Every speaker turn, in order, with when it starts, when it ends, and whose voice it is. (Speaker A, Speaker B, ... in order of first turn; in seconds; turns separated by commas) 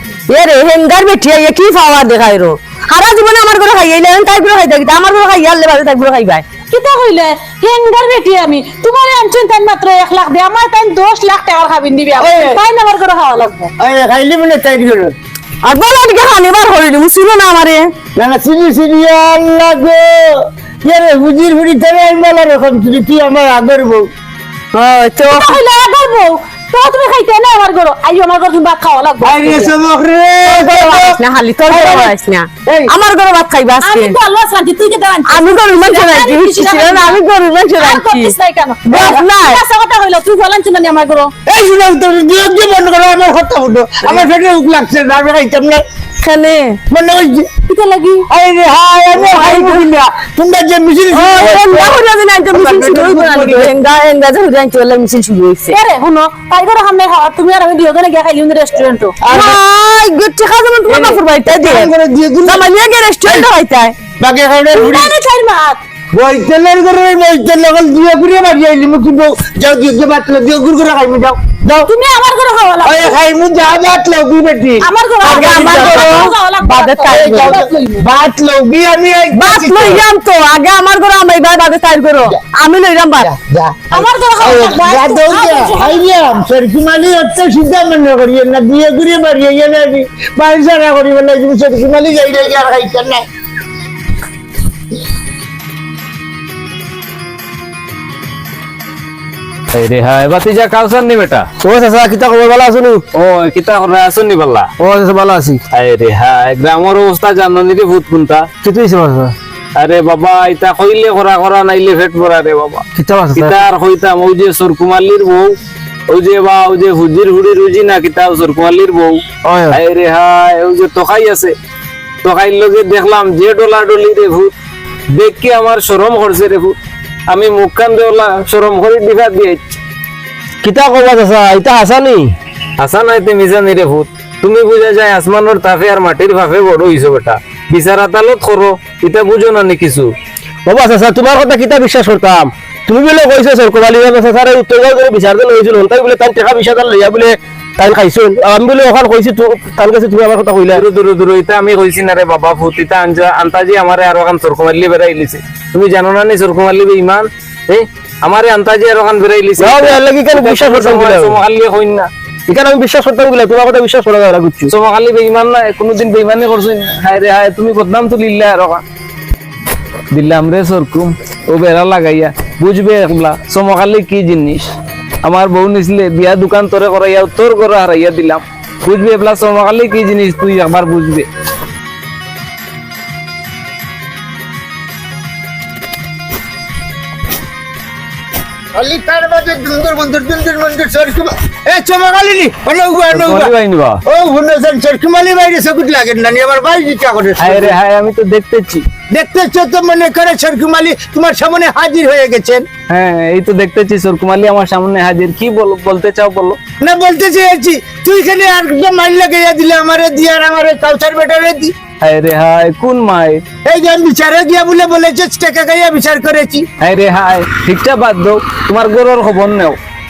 Speaker A: 0.3-6.5, Speaker B: 6.7-13.7, Speaker C: 12.2-12.6, Speaker C: 13.8-15.1, Speaker A: 15.6-17.9, Speaker C: 18.1-24.1, Speaker A: 24.7-25.6, Speaker B: 25.3-29.7, Speaker C: 29.2-32.1, Speaker A: 30.5-34.1, Speaker C: 32.6-32.9, Speaker B: 33.8-37.2, Speaker A: 35.3-38.4, Speaker B: 37.8-41.3, Speaker A: 38.9-39.6, Speaker C: 41.5-45.8, Speaker A: 46.2-46.8, Speaker C: 46.9-47.5, Speaker B: 47.6-48.3, Speaker C: 48.3-52.0, Speaker A: 49.1-49.8, Speaker A: 51.1-55.8, Speaker C: 52.5-53.7, Speaker B: 55.7-59.4, Speaker C: 59.2-59.6, Speaker A: 59.3-61.9, Speaker C: 60.9-62.7, Speaker A: 62.4-64.0, Speaker C: 64.2-65.1, Speaker B: 64.7-65.8, Speaker C: 66.1-71.9, Speaker B: 71.8-73.2, Speaker C: 72.8-76.2, Speaker B: 74.8-78.0, Speaker A: 75.2-77.6, Speaker C: 77.1-80.0, Speaker A: 79.3-83.3, Speaker C: 83.2-93.2, Speaker B: 83.9-86.1, Speaker D: 99.7-101.5, Speaker E: 101.6-103.0, Speaker D: 103.1-104.7, Speaker E: 104.8-105.6, Speaker D: 105.7-108.5, Speaker E: 108.6-109.3, Speaker D: 109.8-115.5, Speaker E: 112.9-113.6, Speaker D: 116.1-121.5, Speaker E: 119.4-119.8, Speaker D: 122.2-124.5, Speaker D: 125.1-126.8, Speaker D: 127.3-129.6, Speaker E: 130.6-132.3, Speaker D: 132.8-140.1, Speaker E: 140.7-150.8, Speaker D: 150.7-162.1, Speaker E: 159.6-161.4, Speaker E: 162.5-164.7, Speaker D: 164.7-168.8, Speaker D: 170.1-174.7, Speaker D: 175.2-181.3, Speaker C: 188.7-193.5, Speaker D: 193.1-194.0, Speaker C: 194.1-197.7, Speaker D: 197.4-198.8, Speaker C: 199.1-202.7, Speaker D: 202.9-206.6, Speaker C: 206.8-211.7, Speaker D: 212.0-213.4, Speaker C: 213.6-216.7, Speaker D: 216.8-219.8